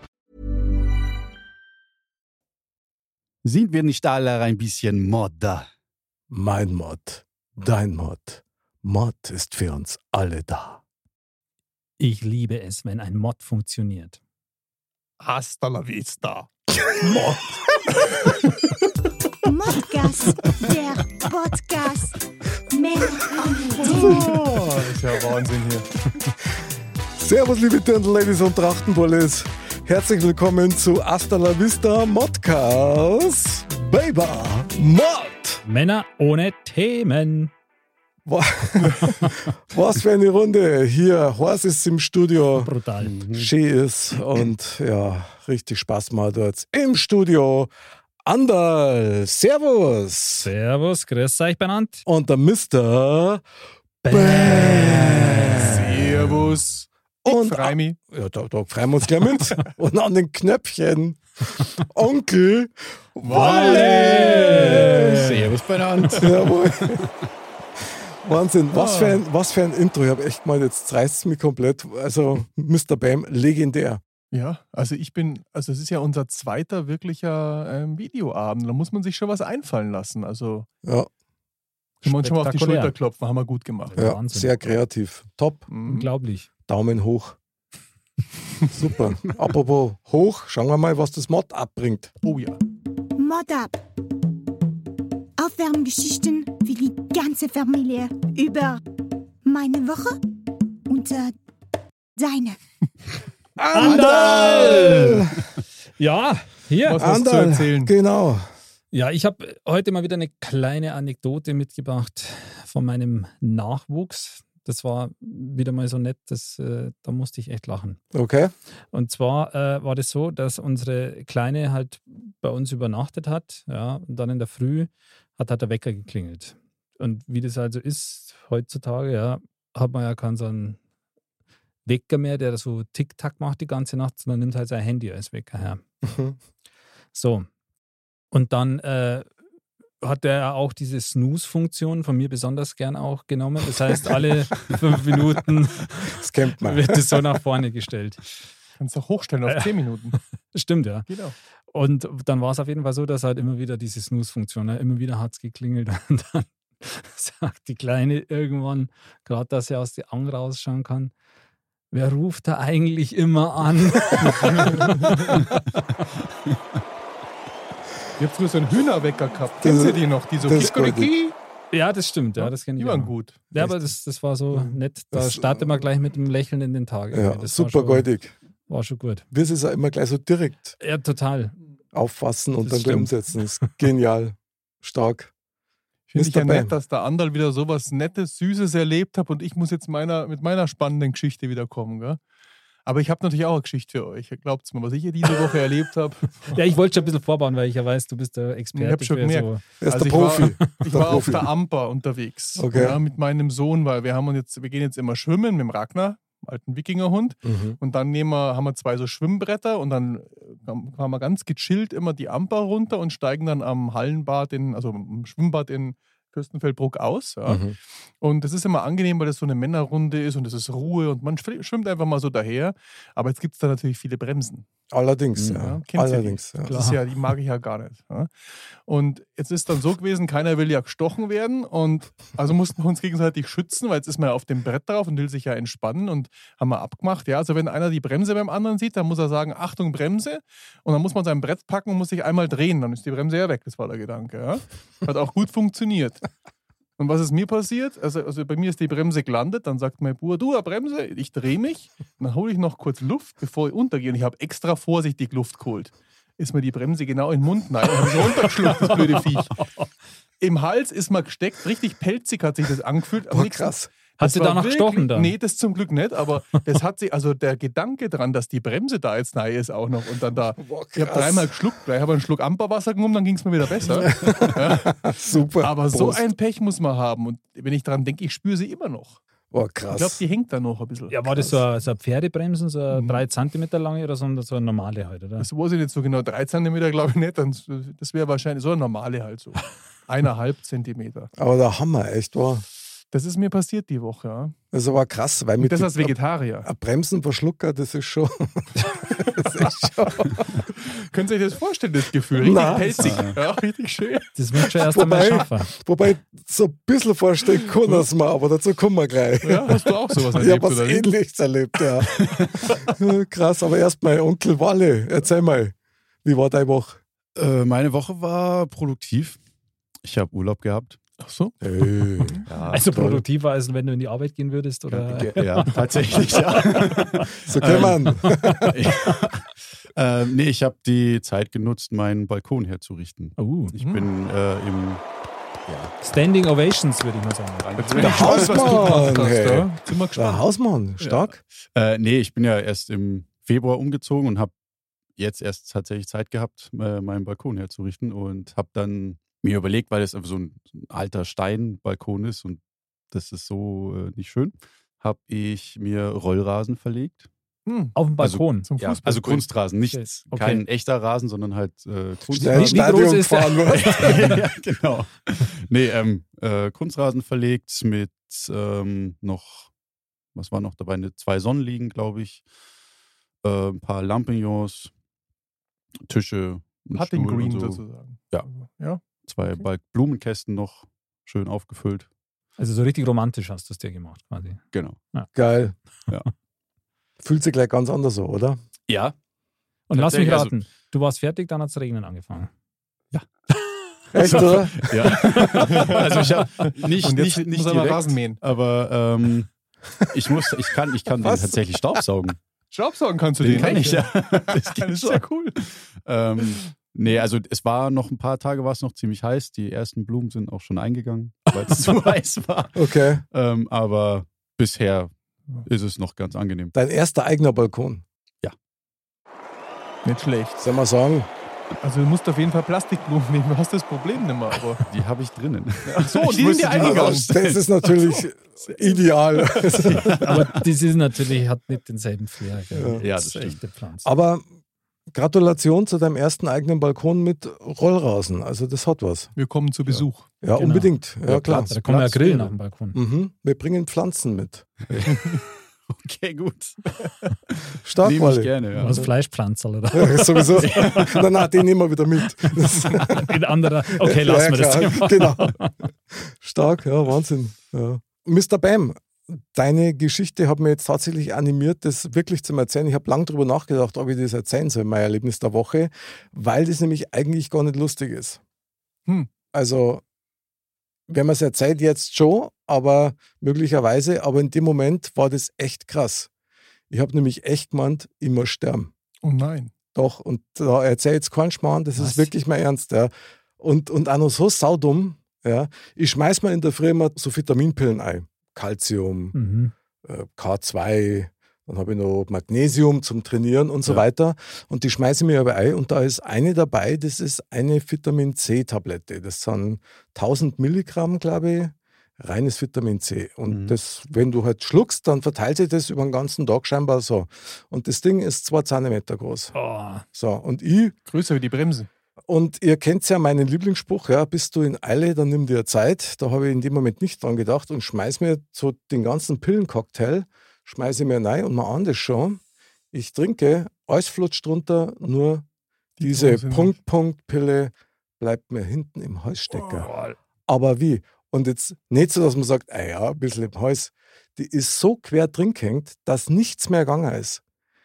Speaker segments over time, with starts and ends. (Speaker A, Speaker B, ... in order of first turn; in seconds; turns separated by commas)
Speaker A: 3.4-5.7, Speaker B: 6.3-10.8, Speaker C: 12.0-14.2, Speaker D: 15.2-16.5, Speaker B: 17.0-17.5, Speaker E: 19.4-24.4, Speaker D: 23.8-25.9, Speaker B: 23.9-24.3, Speaker B: 27.2-35.6, Speaker C: 35.6-37.5, Speaker B: 38.3-42.7, Speaker C: 42.6-43.2, Speaker A: 43.0-43.5, Speaker B: 43.3-47.7, Speaker B: 48.2-50.5, Speaker C: 50.4-52.1, Speaker B: 52.1-53.4, Speaker C: 54.0-55.6, Speaker B: 54.0-56.4, Speaker D: 55.4-58.0, Speaker B: 57.2-65.3, Speaker D: 63.2-64.7, Speaker C: 63.3-65.3, Speaker A: 64.7-67.0, Speaker B: 66.2-67.0, Speaker B: 68.2-74.0, Speaker D: 68.7-69.2, Speaker D: 74.3-80.7, Speaker B: 80.8-81.1, Speaker C: 82.0-83.0, Speaker D: 82.0-84.0, Speaker C: 83.9-84.8, Speaker B: 84.0-85.7, Speaker D: 85.7-86.1, Speaker C: 85.8-86.5, Speaker B: 86.7-87.4, Speaker B: 88.7-92.1, Speaker D: 92.2-92.6, Speaker E: 93.2-93.8, Speaker E: 95.4-98.8, Speaker E: 99.4-100.2, Speaker E: 100.9-101.3, Speaker E: 102.2-102.6, Speaker B: 103.6-105.4, Speaker C: 103.7-105.3, Speaker C: 106.0-107.1, Speaker D: 106.8-107.9, Speaker B: 107.0-108.5, Speaker C: 108.9-118.0, Speaker B: 118.1-118.5, Speaker C: 118.9-130.8, Speaker C: 131.9-135.8, Speaker B: 136.0-136.4, Speaker C: 137.1-137.5, Speaker C: 138.3-139.3, Speaker C: 140.0-148.2, Speaker B: 146.1-147.2, Speaker D: 148.8-150.2, Speaker C: 149.5-151.1, Speaker D: 151.1-151.3, Speaker C: 151.7-161.1, Speaker C: 161.9-165.6, Speaker D: 168.2-171.3, Speaker B: 169.6-171.1, Speaker C: 171.7-178.1, Speaker D: 172.4-173.4, Speaker B: 173.6-173.9, Speaker B: 174.5-175.8, Speaker B: 177.1-178.3, Speaker C: 178.7-179.2, Speaker B: 179.3-180.8, Speaker C: 180.8-181.6, Speaker B: 181.9-185.3, Speaker C: 182.6-183.1, Speaker D: 186.1-192.2, Speaker B: 186.2-186.7, Speaker D: 192.8-196.6, Speaker C: 196.5-199.6, Speaker D: 198.7-217.7, Speaker B: 199.8-201.5, Speaker B: 202.6-203.0, Speaker B: 207.4-207.8, Speaker B: 217.5-217.8, Speaker D: 218.2-224.7, Speaker B: 224.9-226.7, Speaker D: 225.4-246.2, Speaker C: 226.7-227.0, Speaker D: 247.0-259.6, Speaker C: 259.6-259.9, Speaker D: 260.4-275.0, Speaker B: 263.3-263.9, Speaker C: 264.2-265.4, Speaker B: 270.6-271.6, Speaker B: 273.9-276.2, Speaker D: 275.6-279.2, Speaker B: 279.5-280.2, Speaker D: 279.9-281.2, Speaker C: 281.1-285.5, Speaker B: 281.3-281.6, Speaker D: 282.9-283.2, Speaker D: 285.4-291.3, Speaker B: 291.4-292.6, Speaker D: 293.1-294.6, Speaker B: 294.7-300.6, Speaker D: 295.6-296.7, Speaker D: 300.8-304.3, Speaker B: 302.4-303.2, Speaker A: 303.0-303.4, Speaker C: 304.4-305.7, Speaker B: 304.8-317.0, Speaker D: 309.4-311.1, Speaker A: 317.4-319.4, Speaker A: 320.0-321.0, Speaker D: 321.2-321.6, Speaker B: 321.6-323.2, Speaker A: 322.5-322.9, Speaker C: 322.7-327.3, Speaker A: 324.9-335.0, Speaker B: 327.4-328.7, Speaker C: 328.4-328.7, Speaker C: 333.4-333.8, Speaker D: 333.8-334.1, Speaker A: 335.7-335.9, Speaker C: 336.0-338.1, Speaker A: 337.6-339.2, Speaker D: 337.8-340.4, Speaker B: 338.0-341.4, Speaker D: 341.0-341.3, Speaker A: 341.8-344.5, Speaker A: 345.2-352.6, Speaker A: 353.1-357.3, Speaker D: 357.7-357.9, Speaker C: 357.9-358.7, Speaker A: 358.2-363.1, Speaker D: 358.6-359.5, Speaker C: 359.9-360.6, Speaker C: 362.3-364.4, Speaker B: 362.3-364.3, Speaker A: 363.7-369.7, Speaker A: 370.4-372.4, Speaker A: 373.4-374.9, Speaker A: 376.1-378.5, Speaker D: 376.9-379.0, Speaker A: 379.3-382.1, Speaker C: 382.6-385.3, Speaker A: 384.7-385.0, Speaker B: 385.3-385.8, Speaker B: 387.2-388.6, Speaker A: 388.9-389.1, Speaker C: 389.9-392.5, Speaker A: 389.9-390.6, Speaker B: 394.1-395.2, Speaker A: 394.2-399.5, Speaker D: 395.4-398.4, Speaker A: 400.1-402.4, Speaker B: 401.2-401.6, Speaker D: 402.7-405.6, Speaker A: 403.4-416.7, Speaker B: 412.8-413.2, Speaker B: 416.7-418.1, Speaker D: 420.1-420.6, Speaker B: 420.6-421.3, Speaker D: 421.8-424.9, Speaker A: 424.9-427.9, Speaker D: 425.9-427.3, Speaker B: 426.8-430.3, Speaker D: 428.0-429.9, Speaker A: 429.9-430.6, Speaker C: 430.1-434.1, Speaker B: 432.7-433.0, Speaker A: 433.0-433.6, Speaker B: 434.0-434.4, Speaker B: 435.1-439.3, Speaker D: 439.4-440.3, Speaker B: 440.4-444.8, Speaker C: 440.6-443.0, Speaker A: 441.8-442.3, Speaker A: 444.9-445.3, Speaker D: 445.1-445.4, Speaker A: 445.9-449.1, Speaker B: 447.8-448.6, Speaker D: 448.8-449.0, Speaker C: 448.8-451.2, Speaker B: 449.9-453.3, Speaker A: 450.6-451.2, Speaker C: 453.0-455.7, Speaker B: 453.9-455.6, Speaker B: 456.2-468.4, Speaker B: 469.5-470.0, Speaker B: 471.1-476.3, Speaker B: 476.9-478.9, Speaker D: 479.2-479.7, Speaker B: 479.9-489.4, Speaker C: 482.0-482.3, Speaker C: 489.3-489.7, Speaker B: 490.0-509.5, Speaker A: 503.5-503.8, Speaker C: 509.5-510.1, Speaker B: 510.1-510.9, Speaker D: 511.1-511.9, Speaker B: 512.3-522.4, Speaker B: 522.9-525.5, Speaker D: 526.0-526.8, Speaker B: 526.0-529.9, Speaker C: 529.8-530.2, Speaker B: 530.5-537.4